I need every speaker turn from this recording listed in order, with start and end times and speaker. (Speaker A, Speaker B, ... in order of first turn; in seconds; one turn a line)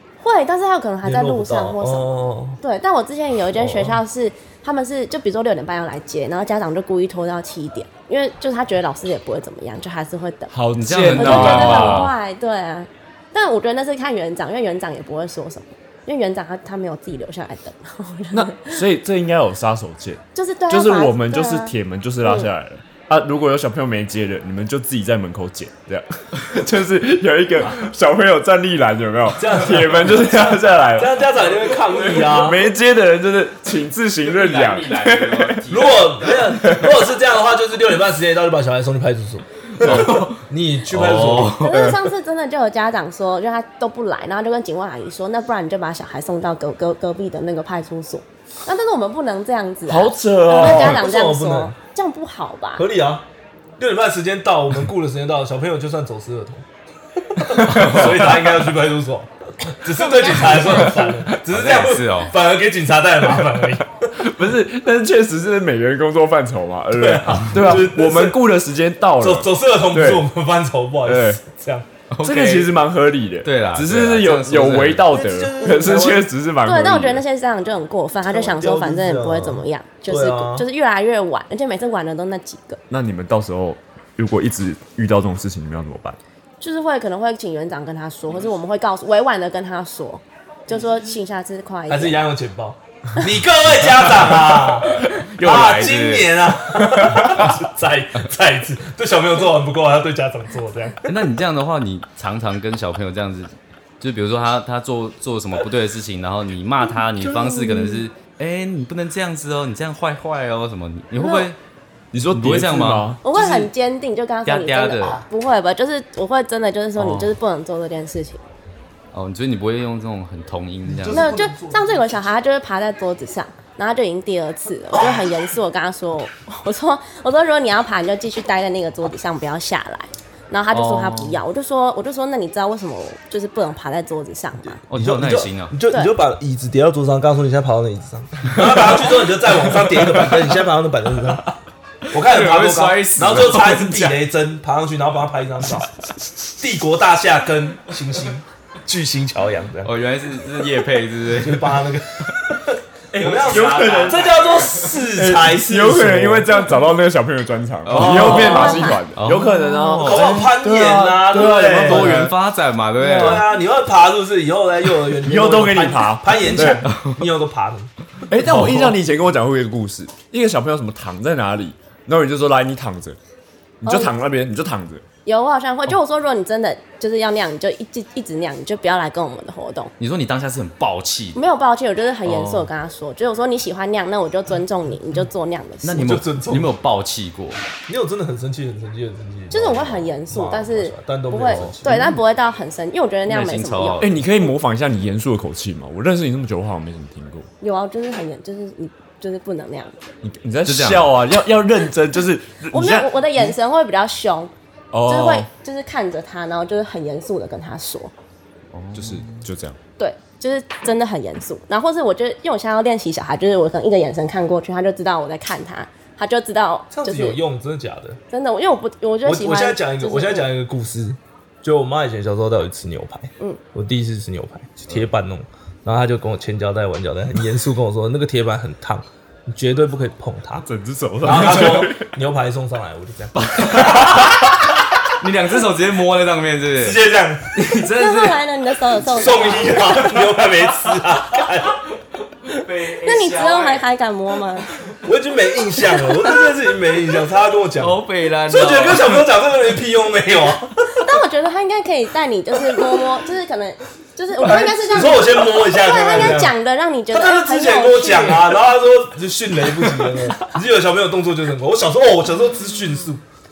Speaker A: 0.2-10.5
Speaker B: 1.0-2.6
Speaker B: 3.5-4.0
Speaker C: 10.5-12.2
Speaker D: 10.7-12.2
Speaker A: 11.1-18.8
Speaker C: 18.3-35.6
Speaker A: 20.4-22.5
Speaker B: 29.4-32.6
Speaker D: 31.7-32.2
Speaker D: 34.2-36.4
Speaker B: 35.7-41.6
Speaker C: 36.4-37.0
Speaker D: 39.8-41.9
Speaker C: 39.8-40.3
Speaker A: 41.6-52.8
Speaker C: 41.7-42.0
Speaker C: 49.9-51.0
Speaker B: 50.5-51.8
Speaker B: 52.8-53.3
Speaker B: 53.8-56.7
Speaker B: 57.3-64.1
Speaker D: 57.5-58.3
Speaker C: 57.6-58.5
Speaker A: 60.0-60.6
Speaker D: 61.3-62.3
Speaker C: 64.2-70.3
Speaker B: 66.9-68.4
Speaker B: 69.2-71.9
Speaker C: 71.0-71.4
Speaker D: 72.1-72.8
Speaker C: 72.2-77.2
Speaker D: 73.4-75.1
Speaker B: 75.1-76.2
Speaker A: 75.6-76.1
Speaker A: 76.6-82.8
Speaker B: 78.3-80.7
Speaker C: 82.9-86.2
Speaker A: 86.6-92.3
Speaker B: 91.9-101.2
Speaker D: 94.9-96.4
Speaker D: 101.0-111.6
Speaker A: 107.4-108.0
Speaker A: 111.2-111.5
Speaker C: 112.1-113.2
Speaker D: 112.3-113.7
Speaker A: 113.2-118.4
Speaker D: 114.5-115.2
Speaker D: 117.0-117.3
Speaker D: 119.1-121.4
Speaker B: 120.8-122.1
Speaker A: 121.1-134.8
Speaker D: 130.7-131.4
Speaker B: 134.7-141.6
Speaker D: 134.9-135.8
Speaker D: 142.1-144.3
Speaker B: 142.1-149.9
Speaker D: 149.8-151.9
Speaker B: 151.3-156.5
Speaker D: 153.1-154.9
Speaker C: 153.3-154.4
Speaker C: 155.0-162.2
Speaker D: 157.8-163.6
Speaker B: 157.9-158.7
Speaker A: 158.1-159.0
Speaker B: 160.0-162.4
Speaker B: 163.0-168.8
Speaker C: 165.2-166.9
Speaker D: 166.6-167.2
Speaker C: 168.3-173.2
Speaker D: 168.4-168.9
Speaker C: 173.8-175.0
Speaker A: 173.8-174.1
Speaker A: 175.3-179.9
Speaker D: 180.0-181.4
Speaker A: 181.3-186.1
Speaker D: 182.2-182.7
Speaker D: 185.8-187.6
Speaker B: 185.9-186.7
Speaker B: 187.9-192.1
Speaker A: 189.5-194.1
Speaker D: 191.5-192.1
Speaker D: 193.3-194.2
Speaker C: 194.0-197.5
Speaker A: 197.6-200.0
Speaker C: 200.2-203.6
Speaker D: 200.7-201.1
Speaker A: 202.7-204.5
Speaker C: 204.9-205.5
Speaker A: 205.1-208.1
Speaker D: 208.7-209.5
Speaker C: 208.9-209.8
Speaker A: 210.0-217.4
Speaker B: 216.9-218.2
Speaker A: 218.3-220.5
Speaker B: 219.2-230.7
Speaker C: 230.7-232.1
Speaker B: 231.2-234.4
Speaker D: 231.3-231.7
Speaker D: 233.3-234.6
Speaker D: 235.1-237.0
Speaker B: 236.8-237.8
Speaker D: 237.5-238.4
Speaker A: 237.8-240.1
Speaker D: 239.1-240.3
Speaker B: 239.1-241.8
Speaker D: 242.4-243.8
Speaker A: 242.5-244.7
Speaker B: 245.0-251.1
Speaker D: 247.8-249.3
Speaker A: 250.9-258.5
Speaker B: 252.8-253.0
Speaker B: 254.3-256.6
Speaker B: 257.1-263.2